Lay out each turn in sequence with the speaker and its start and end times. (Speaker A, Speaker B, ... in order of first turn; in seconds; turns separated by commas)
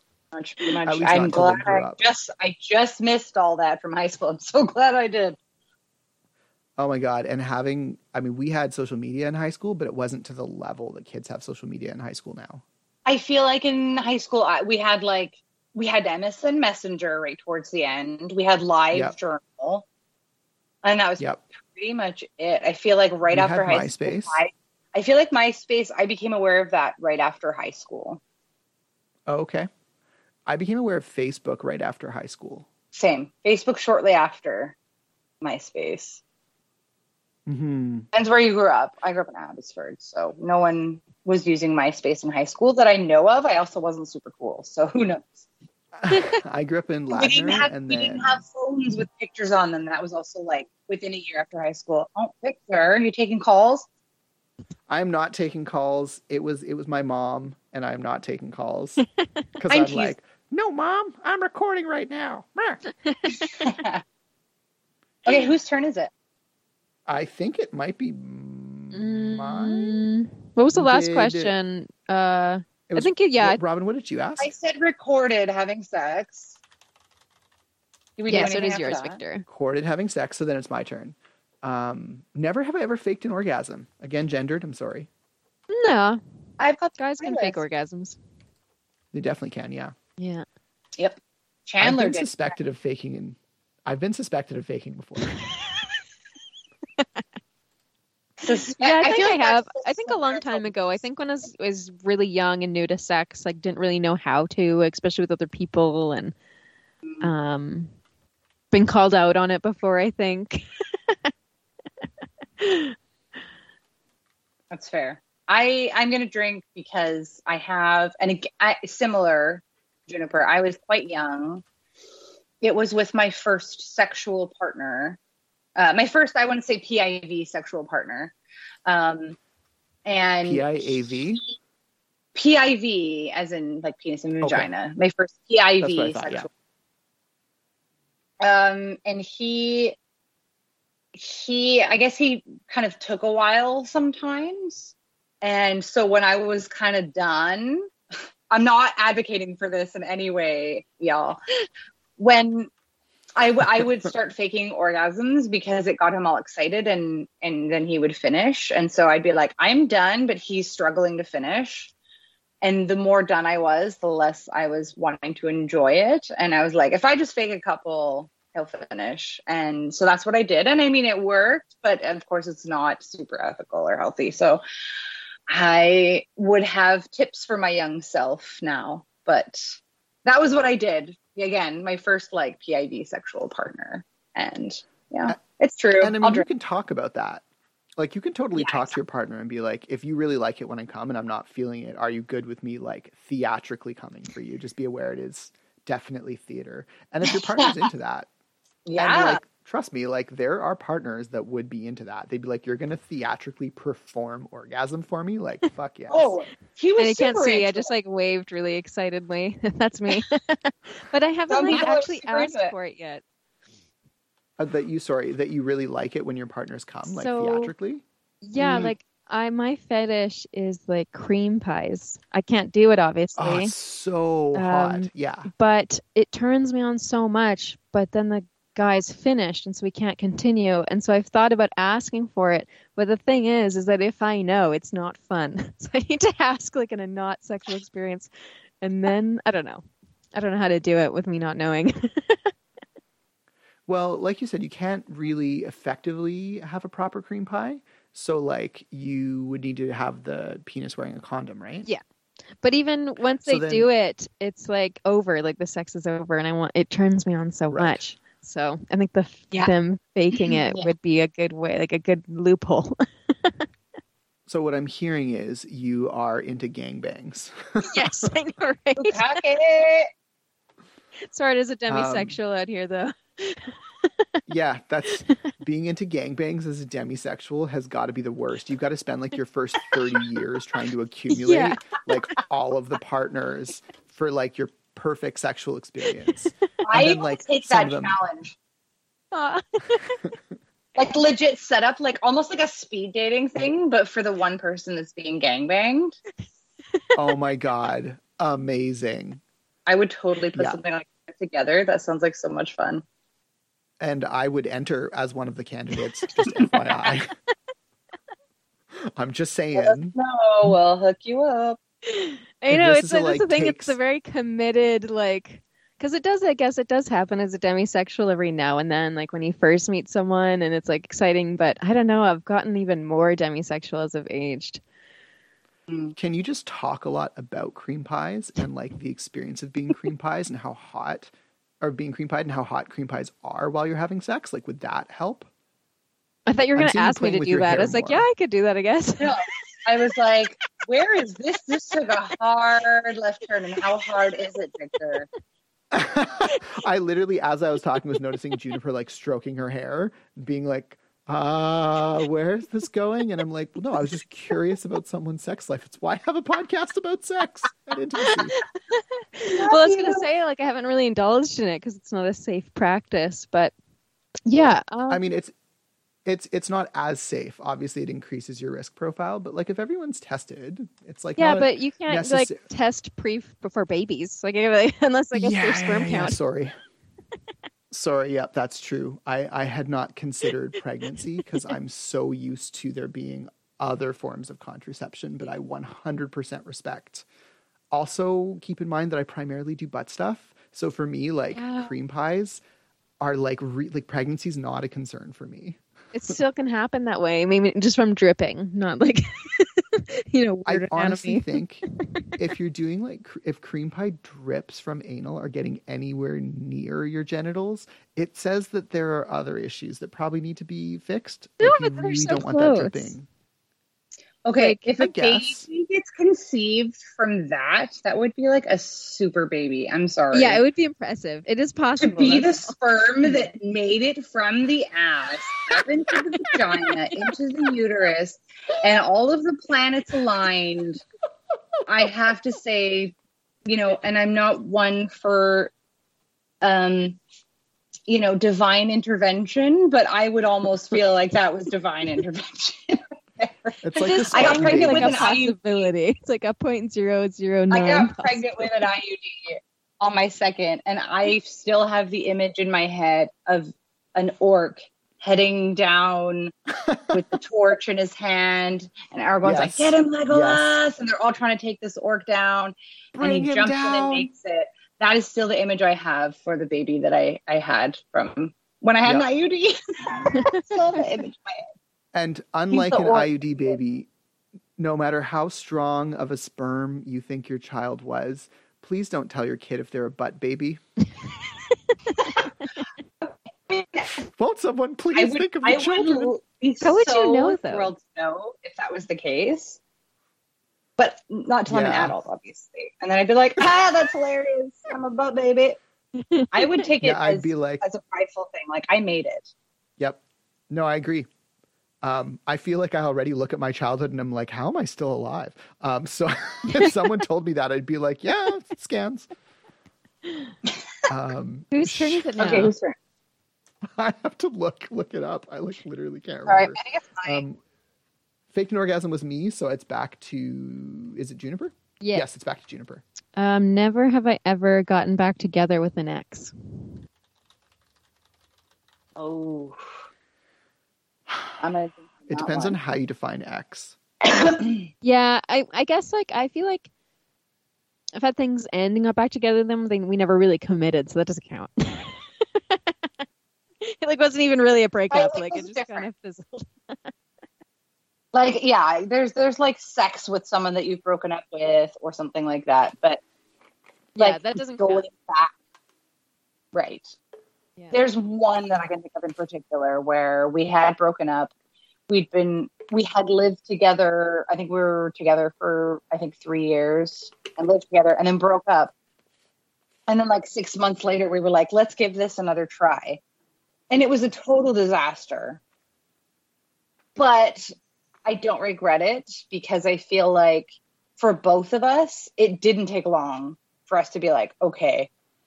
Speaker A: 0.3-5.4, Speaker B: 0.9-2.0, Speaker B: 6.8-12.6, Speaker A: 13.1-19.9, Speaker A: 20.8-28.2, Speaker B: 23.3-24.4, Speaker B: 29.3-29.7, Speaker B: 30.5-32.7, Speaker A: 32.9-34.8, Speaker A: 35.4-36.2, Speaker B: 37.5-38.1, Speaker A: 38.1-45.5, Speaker B: 46.0-48.4, Speaker A: 47.1-53.9, Speaker B: 54.9-59.0, Speaker B: 59.6-62.8, Speaker A: 59.7-60.1, Speaker C: 63.0-63.6, Speaker A: 63.6-64.0, Speaker A: 65.2-66.1, Speaker B: 67.1-70.0, Speaker C: 68.9-73.6, Speaker B: 70.7-71.5, Speaker B: 72.9-74.5, Speaker A: 74.4-76.6, Speaker A: 78.2-79.2, Speaker C: 78.3-79.5, Speaker B: 79.5-85.1, Speaker C: 85.7-86.2, Speaker A: 86.6-87.6, Speaker C: 87.0-88.2, Speaker B: 89.1-90.0, Speaker C: 90.2-90.5, Speaker A: 91.0-92.3, Speaker B: 91.8-95.4, Speaker A: 98.4-101.0, Speaker C: 98.8-106.3, Speaker C: 107.2-107.9, Speaker C: 108.7-111.3, Speaker C: 112.6-113.0, Speaker A: 114.7-121.6, Speaker A: 122.6-125.2, Speaker A: 125.8-128.3, Speaker A: 128.9-129.4, Speaker A: 130.1-131.2, Speaker B: 130.4-131.4, Speaker A: 132.3-136.5, Speaker B: 134.4-134.7, Speaker B: 135.8-136.5, Speaker A: 138.4-140.0, Speaker A: 141.1-147.9, Speaker A: 148.5-151.4, Speaker A: 152.2-152.7, Speaker A: 153.4-161.9, Speaker A: 162.6-174.6, Speaker A: 175.5-186.5, Speaker B: 186.0-187.4, Speaker B: 188.0-198.3, Speaker A: 188.6-189.0, Speaker A: 197.3-197.8, Speaker A: 198.9-199.4, Speaker B: 198.9-206.4, Speaker A: 206.1-207.9, Speaker C: 207.0-213.2, Speaker A: 211.5-212.7, Speaker B: 214.6-218.0, Speaker C: 217.1-217.7, Speaker C: 218.4-223.7, Speaker A: 218.6-218.9, Speaker B: 223.4-225.5, Speaker C: 224.6-239.8, Speaker C: 240.3-242.5, Speaker B: 243.9-251.9, Speaker C: 252.6-263.6, Speaker B: 253.4-253.9, Speaker B: 257.7-258.0, Speaker A: 260.4-260.9, Speaker B: 264.5-268.3, Speaker C: 267.9-269.3, Speaker A: 269.0-270.1, Speaker C: 271.3-274.2, Speaker B: 271.9-272.4, Speaker B: 274.5-288.2, Speaker C: 281.3-281.8, Speaker A: 286.9-288.6, Speaker C: 289.3-290.2, Speaker A: 291.0-296.2, Speaker B: 297.1-299.4, Speaker A: 299.9-303.0, Speaker B: 300.6-300.8, Speaker B: 304.0-307.3, Speaker B: 308.9-310.1, Speaker A: 309.8-311.8, Speaker C: 312.1-324.8, Speaker B: 312.7-314.0, Speaker A: 325.9-326.1, Speaker B: 326.2-335.5, Speaker C: 336.5-339.4, Speaker B: 336.8-338.3, Speaker A: 339.2-345.3, Speaker B: 345.9-358.6, Speaker C: 358.3-363.7, Speaker A: 359.5-360.3, Speaker C: 364.5-365.2, Speaker B: 365.1-365.5, Speaker B: 366.2-372.6, Speaker C: 371.4-376.4, Speaker B: 375.4-376.8, Speaker B: 377.9-387.2, Speaker C: 381.5-381.7, Speaker B: 387.9-392.6, Speaker C: 391.6-391.9, Speaker B: 393.2-396.4, Speaker C: 396.1-402.3, Speaker B: 400.7-401.9, Speaker B: 402.4-413.3, Speaker C: 411.6-413.2, Speaker A: 414.4-420.6, Speaker B: 415.0-415.6, Speaker C: 420.3-422.7, Speaker A: 422.0-431.0, Speaker A: 431.9-435.7, Speaker A: 436.6-437.2, Speaker A: 438.1-445.9, Speaker B: 443.8-445.4, Speaker C: 444.3-448.7, Speaker A: 447.7-456.5, Speaker A: 457.1-471.6, Speaker B: 459.4-460.8, Speaker B: 463.2-464.3, Speaker C: 470.3-470.6, Speaker B: 472.1-474.1, Speaker A: 472.7-473.8, Speaker B: 474.8-480.8, Speaker A: 483.2-484.2, Speaker B: 484.2-486.3, Speaker A: 485.1-489.8, Speaker C: 486.8-487.9, Speaker A: 491.0-495.8, Speaker B: 491.7-492.1, Speaker C: 496.1-496.9, Speaker A: 496.5-499.5, Speaker B: 497.0-497.8, Speaker B: 500.0-501.3, Speaker B: 502.0-509.3, Speaker B: 511.1-512.6, Speaker C: 511.7-512.7, Speaker A: 512.4-513.0, Speaker B: 513.9-517.6, Speaker A: 516.5-517.4, Speaker B: 518.5-523.0, Speaker C: 522.0-522.3, Speaker C: 523.4-527.0, Speaker A: 529.2-529.9, Speaker B: 531.3-531.6, Speaker A: 531.6-532.8, Speaker B: 532.3-534.0, Speaker A: 534.2-534.9, Speaker C: 535.0-536.9, Speaker C: 538.1-543.1, Speaker C: 543.8-547.1, Speaker A: 545.1-546.1, Speaker A: 548.3-553.2, Speaker C: 554.1-555.0, Speaker A: 554.2-555.5, Speaker A: 556.7-557.2, Speaker A: 557.9-561.5, Speaker A: 562.1-568.9, Speaker A: 570.1-573.2, Speaker A: 573.9-575.6, Speaker A: 577.2-577.7, Speaker A: 578.3-585.1